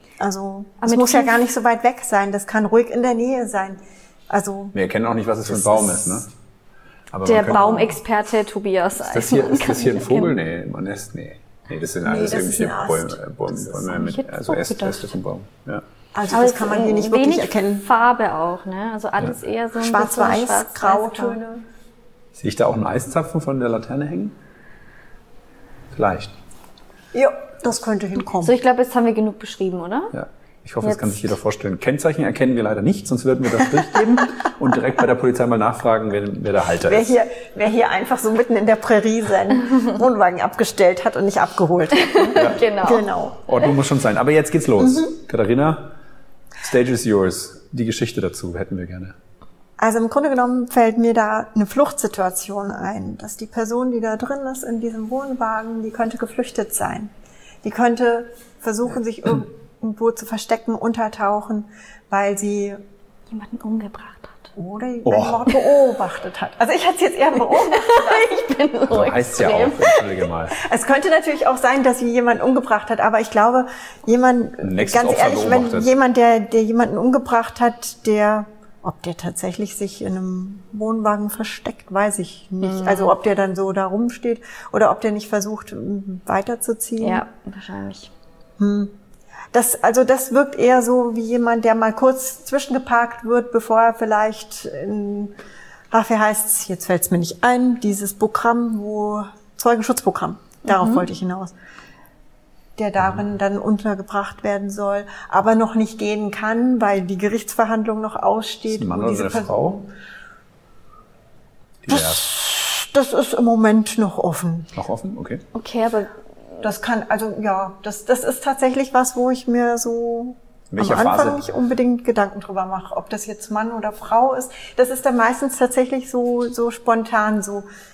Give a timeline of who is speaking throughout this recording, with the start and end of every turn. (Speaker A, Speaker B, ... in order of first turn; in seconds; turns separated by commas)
Speaker A: 0.2-3.8, Speaker B: 0.8-1.4, Speaker A: 4.3-4.8, Speaker C: 4.7-6.3, Speaker A: 5.5-6.3, Speaker C: 7.1-8.0, Speaker B: 7.3-10.3, Speaker C: 9.1-15.8, Speaker A: 12.0-14.1, Speaker B: 13.9-15.2, Speaker A: 16.1-17.9, Speaker B: 16.3-21.4, Speaker A: 19.8-21.6, Speaker C: 22.4-24.4, Speaker C: 25.9-26.4, Speaker A: 27.1-28.6, Speaker B: 28.4-30.1, Speaker C: 30.1-37.2, Speaker B: 30.8-31.4, Speaker A: 36.9-43.5, Speaker B: 42.0-43.1, Speaker C: 42.3-42.6, Speaker C: 43.5-46.0, Speaker A: 44.8-45.1, Speaker C: 46.6-49.2, Speaker A: 49.8-57.1, Speaker A: 57.6-62.8, Speaker B: 63.3-64.5, Speaker A: 64.5-68.5, Speaker C: 65.0-65.4, Speaker B: 67.5-70.2, Speaker C: 68.9-70.6, Speaker A: 70.5-87.2, Speaker C: 74.6-75.9, Speaker B: 82.6-83.1, Speaker B: 87.0-88.1, Speaker A: 88.6-89.0, Speaker A: 89.5-95.4, Speaker A: 95.9-101.5, Speaker B: 100.7-101.1, Speaker A: 102.8-109.8, Speaker C: 108.7-109.8, Speaker C: 111.8-112.2, Speaker A: 111.9-114.7, Speaker C: 114.8-115.4, Speaker B: 115.5-116.1, Speaker A: 116.6-127.7, Speaker C: 120.7-121.4